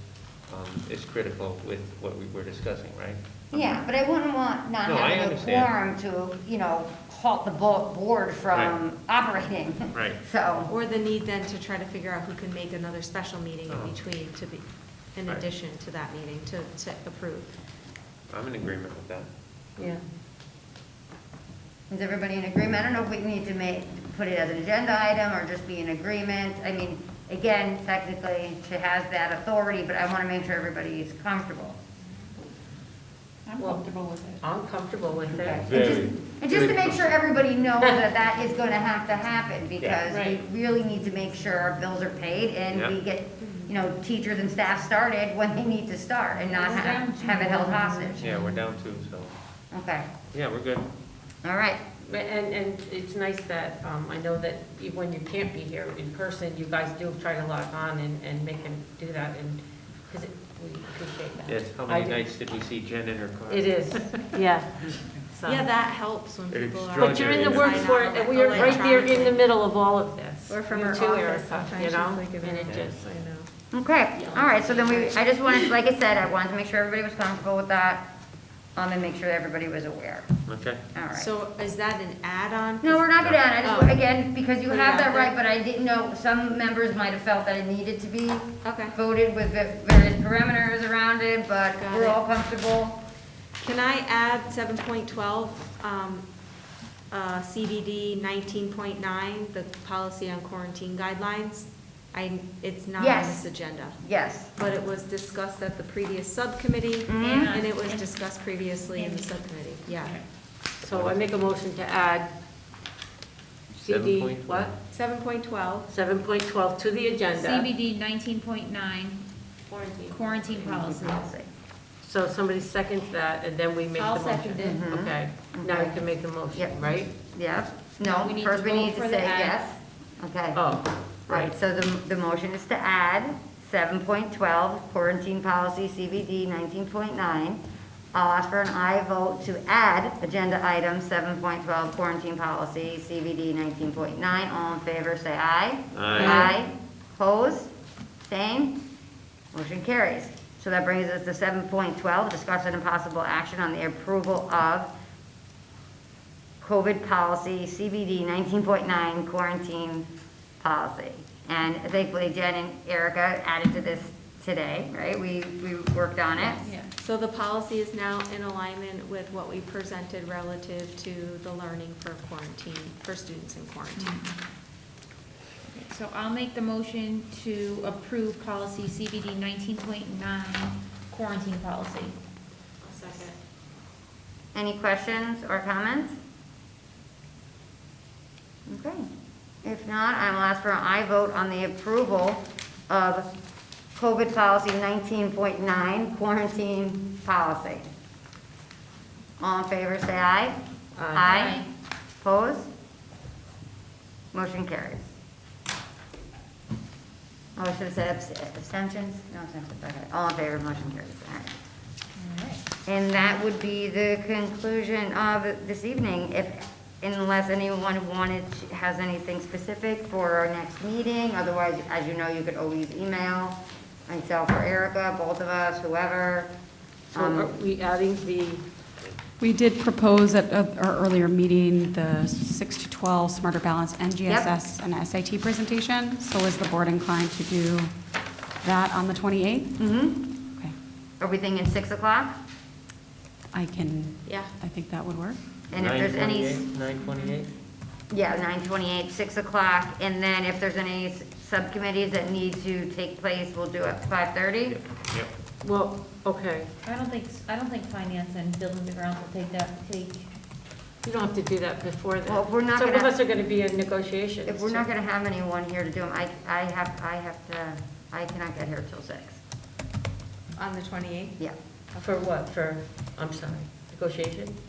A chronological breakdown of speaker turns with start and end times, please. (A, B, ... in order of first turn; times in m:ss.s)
0:00.5-0:03.8 A
0:03.5-0:10.7 B
0:04.8-0:05.7 A
0:08.5-0:08.8 A
0:09.9-0:10.2 A
0:10.7-0:17.5 C
0:13.7-0:14.0 A
0:18.3-0:19.3 A
0:21.9-0:31.8 B
0:33.5-0:34.4 D
0:33.6-0:33.8 E
0:34.4-0:35.8 E
0:35.3-0:48.2 B
0:35.5-0:37.2 A
0:39.8-0:40.1 A
0:40.0-0:40.4 D
0:42.7-0:43.0 A
0:46.5-0:48.6 D
0:48.2-0:49.3 A
0:49.7-0:50.1 B
0:50.3-0:50.9 A
0:51.4-0:51.8 B
0:52.0-1:02.2 E
1:01.5-1:03.7 A
1:03.5-1:05.6 E
1:05.4-1:09.4 C
1:06.5-1:07.9 A
1:07.0-1:13.0 E
1:10.5-1:13.5 C
1:12.6-1:12.9 A
1:13.7-1:18.1 B
1:14.2-1:15.7 C
1:18.8-1:20.3 B
1:20.5-1:20.8 A
1:20.9-1:21.3 B
1:21.1-1:23.1 C
1:22.8-1:33.0 B
1:23.6-1:24.0 C
1:24.7-1:25.3 C
1:28.6-1:29.0 C
1:31.8-1:32.2 C
1:33.6-1:36.3 C
1:37.1-1:44.0 C
1:43.0-1:43.5 B
1:44.0-1:44.5 B
1:44.6-1:50.2 C
1:47.1-1:47.6 B
1:47.2-1:48.2 D
1:48.8-1:50.2 D
1:50.8-1:52.3 E
1:50.8-1:51.3 A
1:53.8-1:54.8 A
1:53.8-1:54.7 E
1:54.9-1:55.9 C
1:55.9-1:57.7 E
1:57.3-1:59.3 D
1:59.7-2:00.5 C
2:00.1-2:01.3 D
2:00.6-2:01.5 B
2:02.0-2:07.1 E
2:04.0-2:04.9 D
2:04.6-2:10.8 B
2:08.0-2:09.6 D
2:10.6-2:11.5 E
2:11.3-2:17.6 B
2:18.1-2:27.7 B
2:25.9-2:26.4 A
2:26.2-2:26.5 E
2:28.2-2:28.8 B
2:29.5-2:34.9 B
2:36.6-2:40.1 B
2:40.6-2:46.7 B
2:46.4-2:46.9 D
2:47.0-2:54.2 C
2:54.0-2:54.4 D
2:55.7-3:02.2 D
3:02.8-3:03.4 C
3:04.5-3:06.2 B
3:08.7-3:09.1 B
3:09.6-3:13.3 B
3:14.0-3:17.9 B
3:19.4-3:20.6 B
3:21.0-3:21.3 E
3:21.1-3:21.6 B
3:21.2-3:21.7 D
3:22.2-3:22.7 B
3:24.3-3:25.0 B
3:27.6-3:31.5 B
3:32.2-3:32.6 D
3:32.9-3:46.5 B
3:47.1-3:47.5 B
3:47.1-3:48.6 E
3:49.4-3:57.9 F
3:58.6-3:59.7 F
3:59.8-4:00.4 B
4:01.2-4:02.4 B
4:03.5-4:05.4 F
4:04.3-4:04.5 C
4:05.7-4:06.7 B
4:05.7-4:07.5 A
4:07.0-4:07.5 D
4:08.1-4:14.8 B
4:14.6-4:15.3 A
4:15.6-4:16.7 E
4:16.8-4:20.3 D
4:21.0-4:24.8 E
4:22.3-4:23.1 B
4:24.4-4:29.4 B
4:30.6-4:31.4 C
4:32.0-4:34.5 E